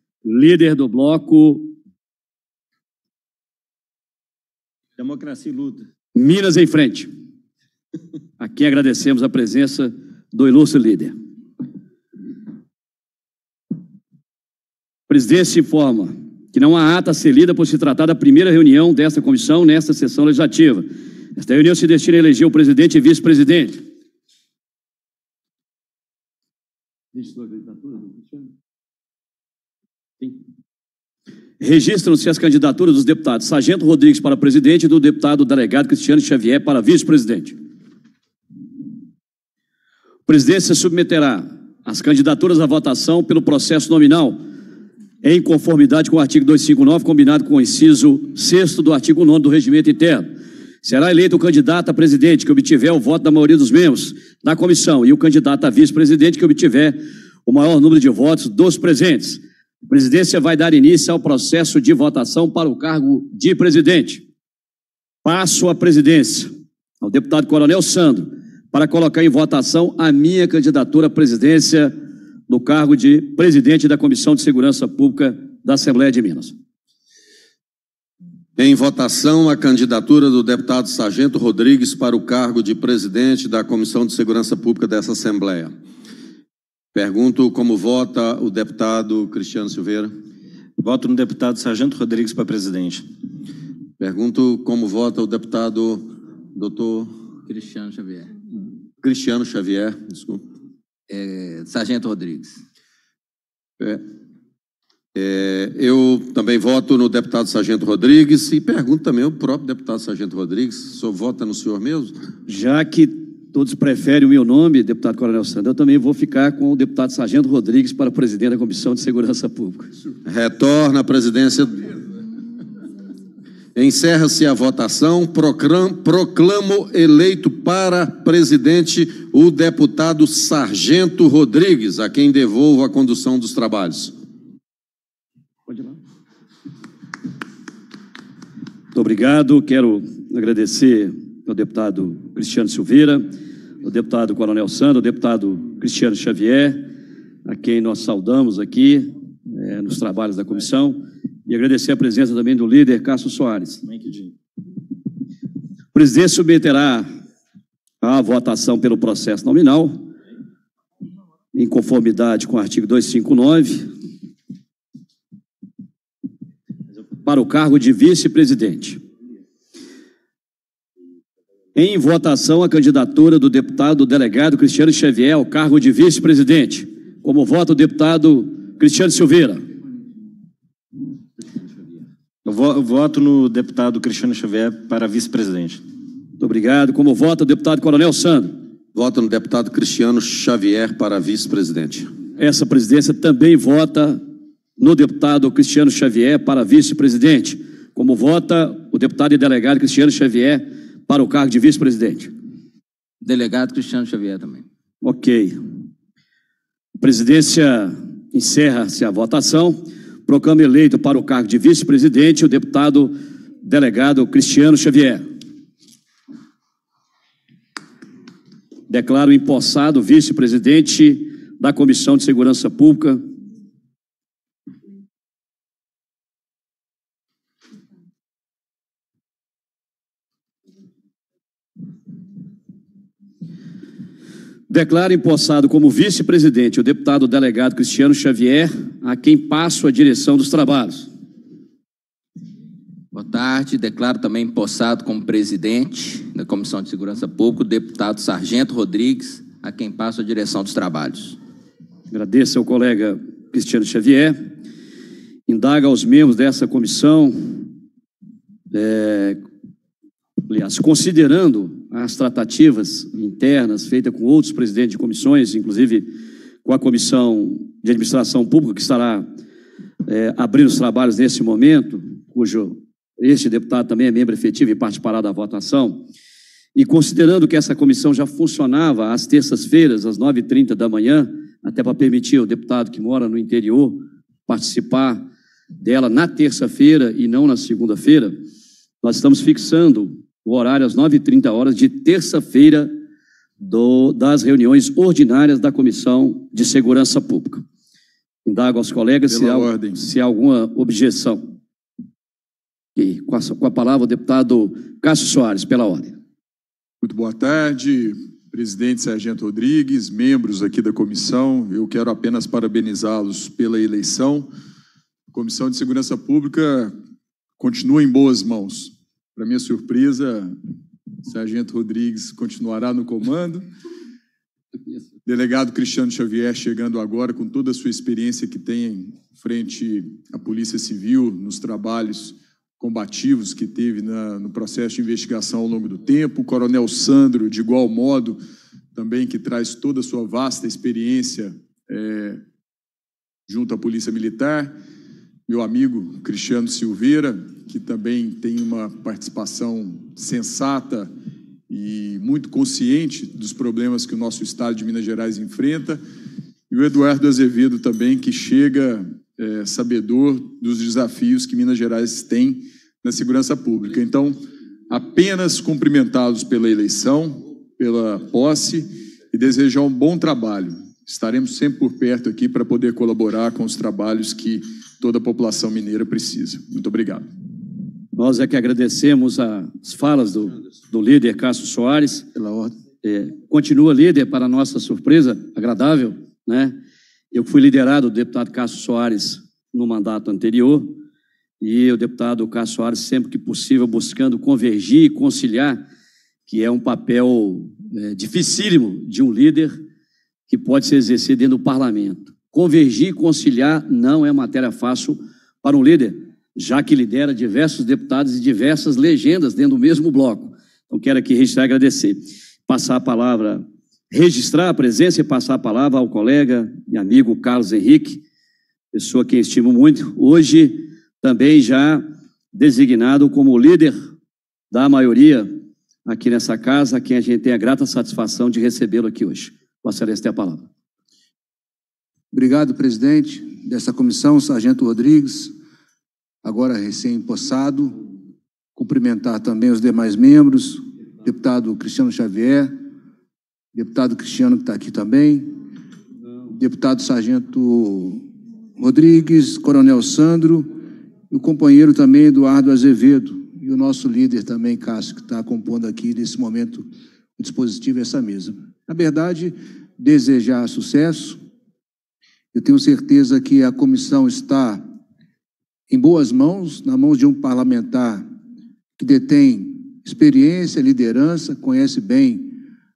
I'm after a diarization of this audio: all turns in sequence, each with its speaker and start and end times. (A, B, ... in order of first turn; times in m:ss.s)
0:00.2-0:01.7 A
0:05.0-0:05.8 B
0:06.1-0:07.1 A
0:08.4-0:11.1 A
0:15.1-0:23.8 A
0:27.1-0:28.4 A
0:31.6-0:37.6 A
0:40.3-0:44.4 A
0:45.2-0:50.3 A
0:50.8-1:04.2 A
1:05.2-1:11.9 A
1:12.5-1:16.5 A
1:18.6-1:25.7 C
1:26.9-1:30.1 C
1:30.8-1:33.0 B
1:34.0-1:37.2 C
1:37.5-1:38.2 D
1:39.0-1:40.4 C
1:41.1-1:42.5 D
1:45.1-1:52.1 C
1:52.5-1:59.9 A
2:00.2-2:02.0 C
2:03.7-2:14.1 C
2:15.7-2:15.9 A
2:18.9-2:23.2 A
2:23.8-2:26.9 A
2:27.4-2:33.8 A
2:33.9-2:34.3 B
2:35.9-2:37.1 A
2:38.0-2:40.1 A
2:41.5-2:43.9 A
2:47.2-2:49.0 A
2:51.7-2:59.6 A
3:02.4-3:05.8 B
3:06.4-3:08.5 A
3:08.9-3:12.1 C
3:12.4-3:14.2 A
3:14.8-3:22.3 A
3:23.2-3:24.6 D
3:25.0-3:25.6 A
3:27.0-3:35.2 A
3:38.9-3:43.2 A
3:54.7-4:01.1 A
4:03.1-4:11.4 D
4:12.1-4:14.4 A
4:15.5-4:17.6 A
4:18.7-4:19.4 A
4:20.5-4:26.1 A
4:26.6-4:29.2 A
4:30.0-4:36.0 A
4:36.7-4:45.2 A
4:45.8-4:48.3 A
4:49.0-4:52.9 A
4:53.6-4:57.6 A
4:58.4-5:01.4 A
4:59.3-5:00.0 E
5:03.0-5:06.2 A
5:07.0-5:14.5 E
5:15.3-5:16.9 E
5:17.6-5:20.6 E
5:21.2-5:23.6 E
5:25.2-5:38.4 E
5:38.9-5:42.4 E
5:43.5-5:44.7 E
5:45.5-5:51.1 E
5:51.7-5:56.0 E
5:56.7-6:04.4 E
6:04.9-6:17.2 E
6:18.1-6:22.3 A
6:22.3-6:22.7 F
6:23.0-6:26.8 A
6:27.3-6:31.0 A
6:31.6-6:35.8 A
6:36.4-6:39.8 A
6:40.5-6:58.2 A
6:58.9-7:03.9 A
7:04.7-7:05.5 A
7:06.0-7:10.7 A
7:12.3-7:15.5 F
7:16.4-7:18.0 F
7:18.8-7:22.7 F
7:23.7-7:25.5 F
7:26.5-7:28.2 F
7:28.8-7:30.7 F
7:31.3-7:36.8 F
7:37.4-7:41.4 F
7:42.5-7:44.8 F
7:45.9-7:48.2 F
7:49.0-7:52.6 F